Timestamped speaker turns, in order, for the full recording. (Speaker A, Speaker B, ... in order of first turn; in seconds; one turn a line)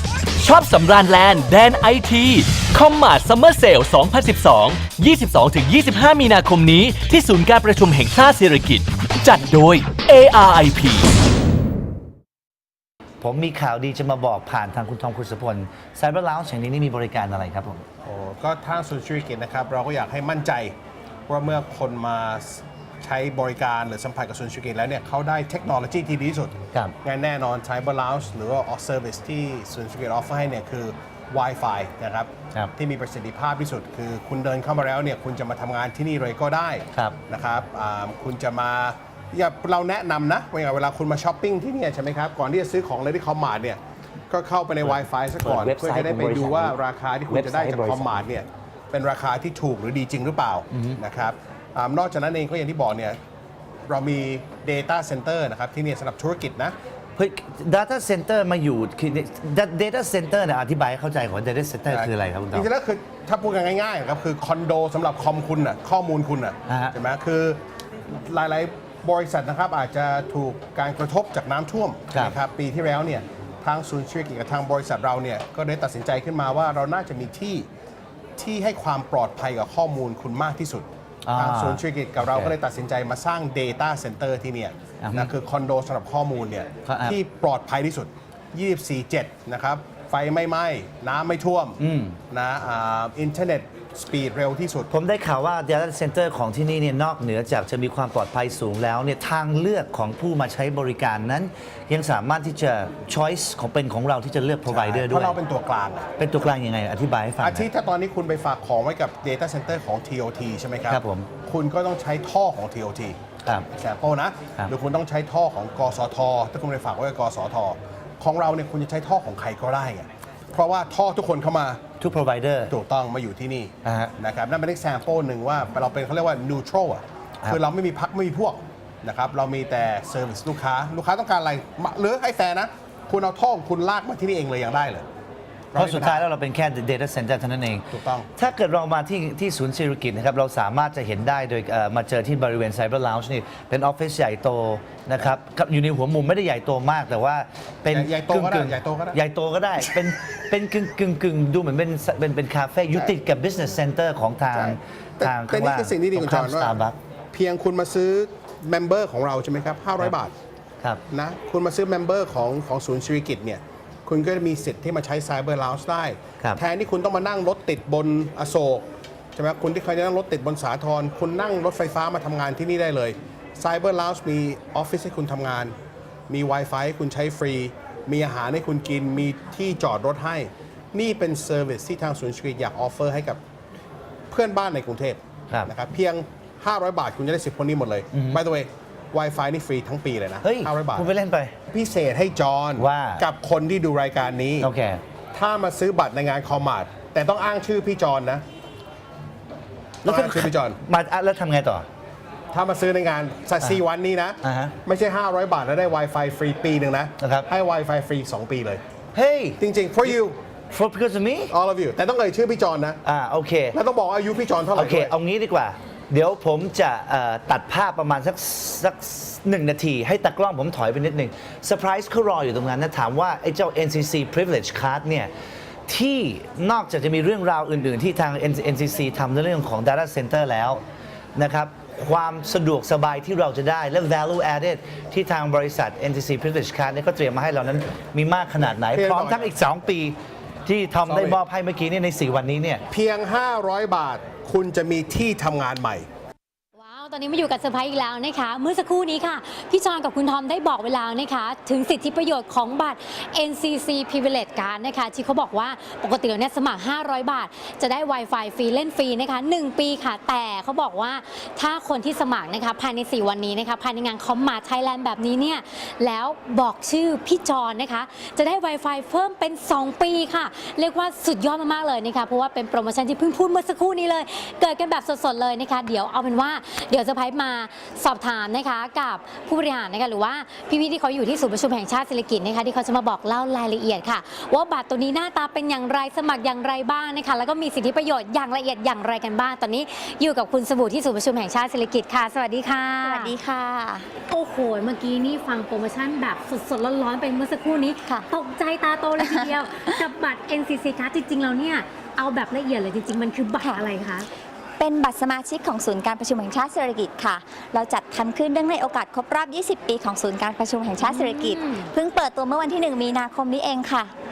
Speaker A: 0.4-11.1
Speaker B: 13.2-17.8
Speaker C: 18.1-20.7
Speaker C: 21.3-53.2
Speaker B: 44.9-46.8
Speaker B: 47.3-48.3
Speaker B: 50.7-51.0
Speaker C: 53.9-56.8
Speaker B: 57.2-62.7
Speaker C: 61.9-77.7
Speaker B: 66.7-66.9
Speaker C: 78.4-91.8
Speaker B: 81.3-82.5
Speaker B: 85.0-85.3
Speaker B: 86.9-87.2
Speaker B: 91.8-92.2
Speaker C: 92.3-94.9
Speaker B: 94.9-105.4
Speaker C: 104.7-106.1
Speaker B: 106.2-107.7
Speaker C: 107.4-113.2
Speaker B: 110.9-111.3
Speaker C: 113.8-121.8
Speaker B: 122.0-122.7
Speaker C: 122.7-135.1
Speaker B: 123.8-124.1
Speaker C: 135.7-136.2
Speaker B: 135.8-157.0
Speaker C: 137.9-138.3
Speaker C: 147.9-149.2
Speaker C: 154.5-156.8
Speaker C: 157.3-160.3
Speaker C: 161.1-175.8
Speaker C: 176.3-183.4
Speaker C: 184.3-191.1
Speaker B: 188.1-188.4
Speaker B: 190.4-191.5
Speaker C: 191.7-194.7
Speaker B: 192.8-193.2
Speaker B: 194.6-195.0
Speaker C: 195.3-198.4
Speaker B: 200.0-201.9
Speaker C: 200.1-200.8
Speaker C: 202.5-208.8
Speaker B: 204.4-204.7
Speaker B: 207.2-207.5
Speaker B: 209.2-210.1
Speaker C: 209.6-210.4
Speaker B: 210.7-211.5
Speaker C: 211.5-213.0
Speaker B: 213.0-213.8
Speaker C: 213.7-215.1
Speaker B: 214.8-225.3
Speaker B: 225.9-230.8
Speaker B: 231.3-242.8
Speaker C: 238.8-239.6
Speaker C: 241.1-241.4
Speaker C: 242.9-246.1
Speaker D: 246.8-293.4
Speaker E: 293.0-294.1
Speaker D: 294.3-304.3
Speaker E: 299.2-299.5
Speaker E: 304.8-314.1
Speaker D: 311.0-311.9